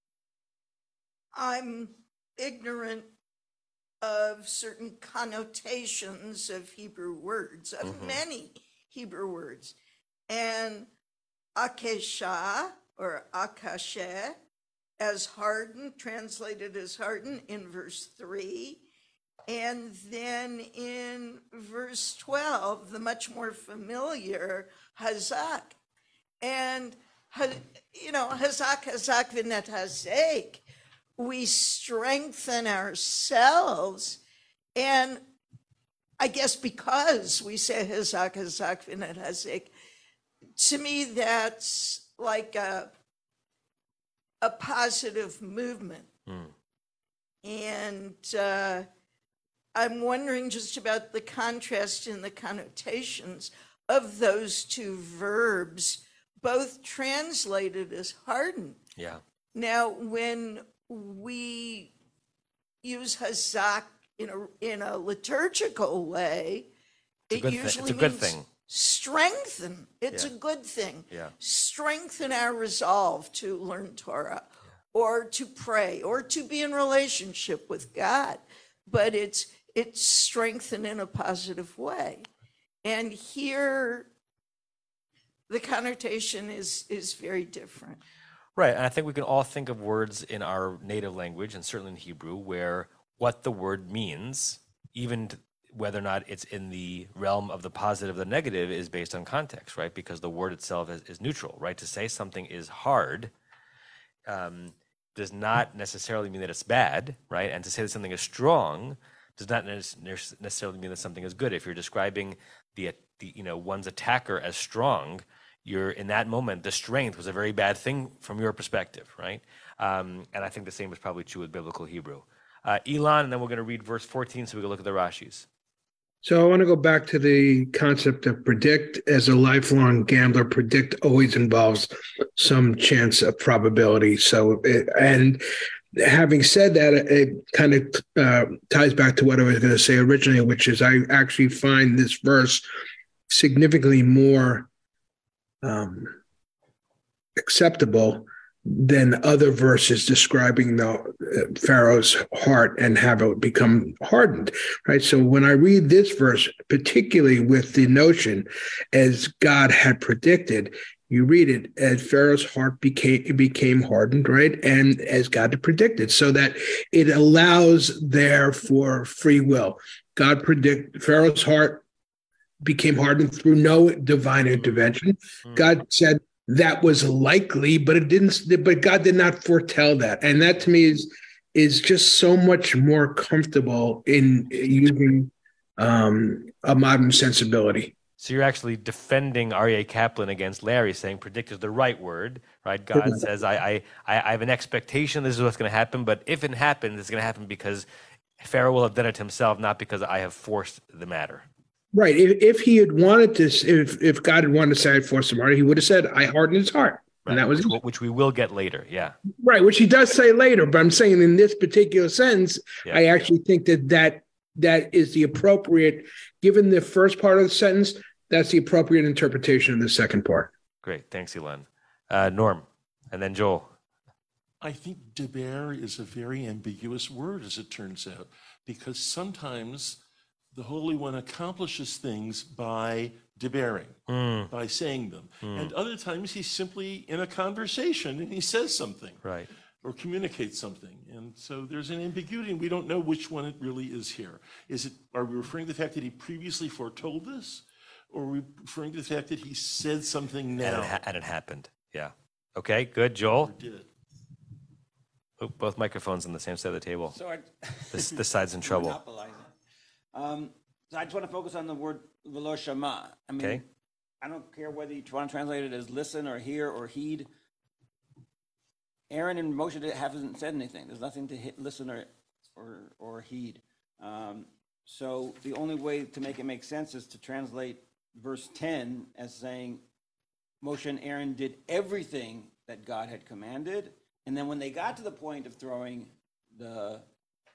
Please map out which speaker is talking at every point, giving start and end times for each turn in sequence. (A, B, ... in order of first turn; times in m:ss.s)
0:01.3-0:03.1 A
0:04.0-0:09.8 A
0:07.8-0:08.2 B
0:10.3-0:10.9 A
0:11.6-0:14.4 A
0:15.0-0:18.8 A
0:19.5-0:25.7 A
0:26.4-0:30.6 A
0:31.2-0:34.2 A
0:34.8-0:35.2 A
0:36.2-0:39.7 A
0:40.6-0:42.9 A
0:44.4-0:46.1 A
0:46.3-0:46.5 B
0:47.4-0:48.9 A
0:49.7-0:58.8 A
0:59.5-1:01.9 A
1:02.8-1:06.7 A
1:07.3-1:22.2 A
1:07.3-1:08.4 B
1:22.8-1:24.1 A
1:25.5-1:28.0 A
1:28.6-1:43.3 B
1:44.3-2:05.5 B
2:06.2-2:15.4 C
2:16.0-2:22.6 C
2:23.3-2:24.7 C
2:25.6-2:26.2 C
2:27.4-2:51.8 C
2:52.6-3:07.9 C
2:55.4-2:55.7 B
3:08.2-3:17.8 B
3:12.9-3:13.2 C
3:18.4-3:21.4 B
3:21.9-3:27.7 C
3:27.2-3:29.2 B
3:29.4-3:40.5 C
3:32.8-3:33.3 B
3:40.8-3:43.7 B
3:44.6-3:50.0 D
3:50.5-3:54.0 D
3:54.1-3:54.5 B
3:54.5-3:59.2 D
3:55.4-3:55.7 B
3:59.2-3:59.5 B
3:59.8-4:11.0 D
4:10.6-4:13.5 B
4:13.4-4:13.9 D
4:15.4-4:17.1 B
4:17.1-4:19.5 E
4:17.9-4:19.0 B
4:20.1-4:23.6 E
4:24.2-4:27.3 E
4:29.1-4:39.8 E
4:40.6-4:47.0 E